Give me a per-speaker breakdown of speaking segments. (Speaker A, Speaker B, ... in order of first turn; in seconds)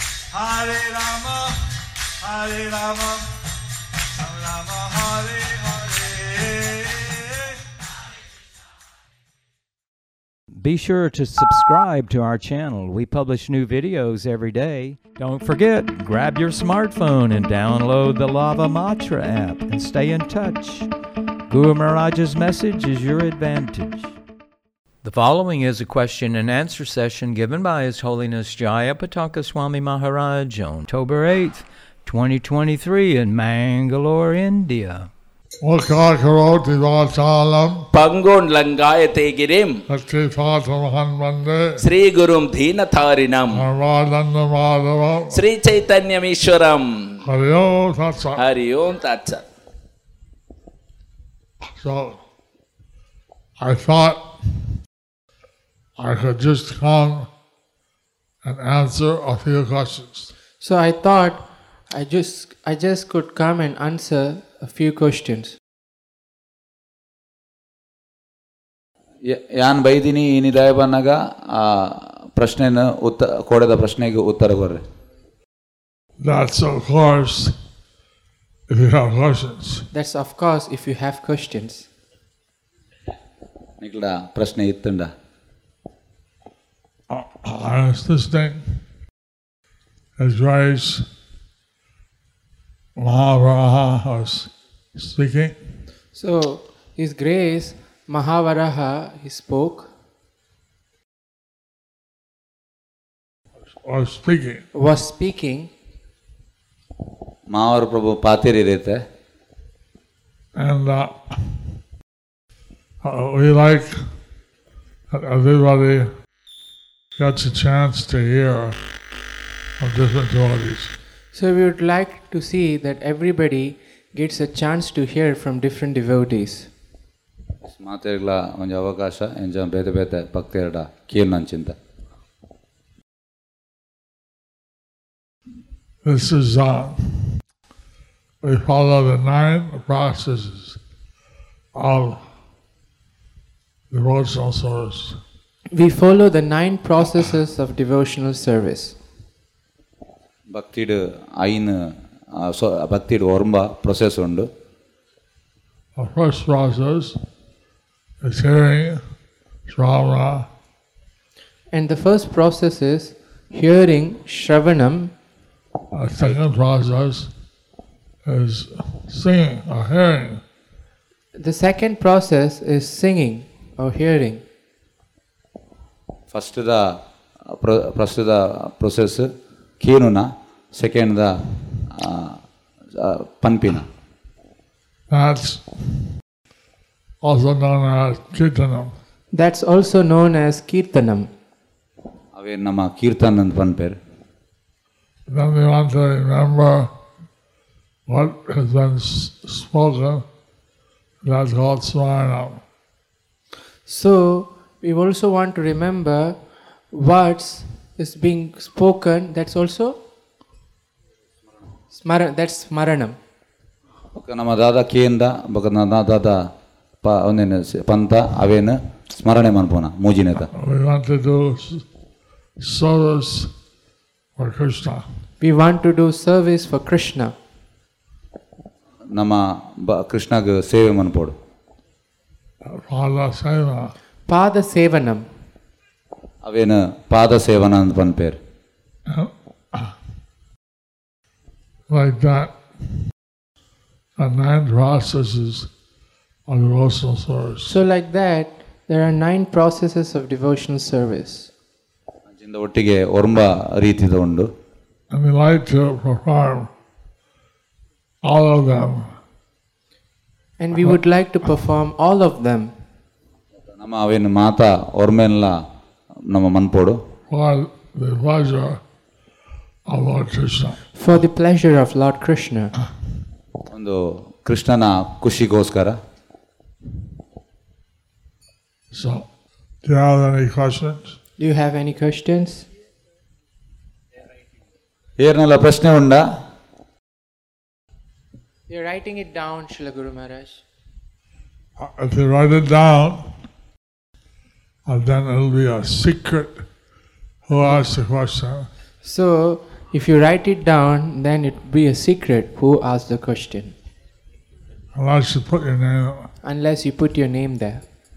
Speaker A: 0.3-3.3, 4.1-7.6
Speaker B: 10.5-20.9, 21.5-24.1, 25.0-35.1
Speaker C: 35.6-37.9, 39.9-41.8, 43.5-45.4, 47.2-48.4, 51.8-52.2, 53.6-54.2, 56.0-57.3, 58.4-60.3, 76.2-77.5, 78.7-79.9, 87.1-88.8, 90.2-91.0, 93.0-95.6, 103.8-104.7, 110.5-111.6, 113.0-114.0, 115.1-116.1, 117.2-118.8, 119.8-120.9, 136.0-137.4, 138.4-140.8, 141.7-142.2, 143.9-145.2, 156.0-157.2, 158.2-159.0, 159.7-160.5, 165.9-167.3, 168.2-170.4, 185.1-186.0, 187.2-188.9, 195.3-196.9, 198.1-200.2, 201.2-202.6, 220.5-221.8, 222.6-223.5, 224.4-225.1, 232.6-233.9, 239.1-239.9, 241.9-242.6, 244.2-245.7, 246.5-247.8, 255.1-256.7, 258.2-259.1, 267.3-268.8, 269.9-270.8, 278.9-279.3, 279.8-281.2, 291.8-293.3, 294.9-296.6, 297.5-298.7, 304.9-306.3
Speaker D: 37.9-39.9, 41.8-43.7, 45.3-47.3, 48.4-49.4
Speaker E: 60.6-65.6, 79.9-81.9, 96.1-99.9, 104.7-105.7, 121.3-126.7, 145.7-149.0, 161.7-165.1, 171.4-174.4, 189.3-191.3, 203.9-206.4, 206.9-210.0, 211.9-213.2, 225.4-227.3, 234.3-235.3, 247.7-251.5, 260.6-262.7, 270.9-272.7, 281.4-282.6, 288.7-290.6, 299.0-303.8, 306.4-307.8
Speaker F: 69.2-74.8, 83.8-85.1, 107.5-109.0, 127.6-131.8, 150.5-154.5, 176.3-182.4, 182.9-183.9, 192.3-194.0, 214.2-216.5, 217.0-220.5, 229.1-231.4, 236.4-238.4, 252.3-254.5, 263.7-265.6, 266.2-267.0, 273.7-276.0, 285.2-286.4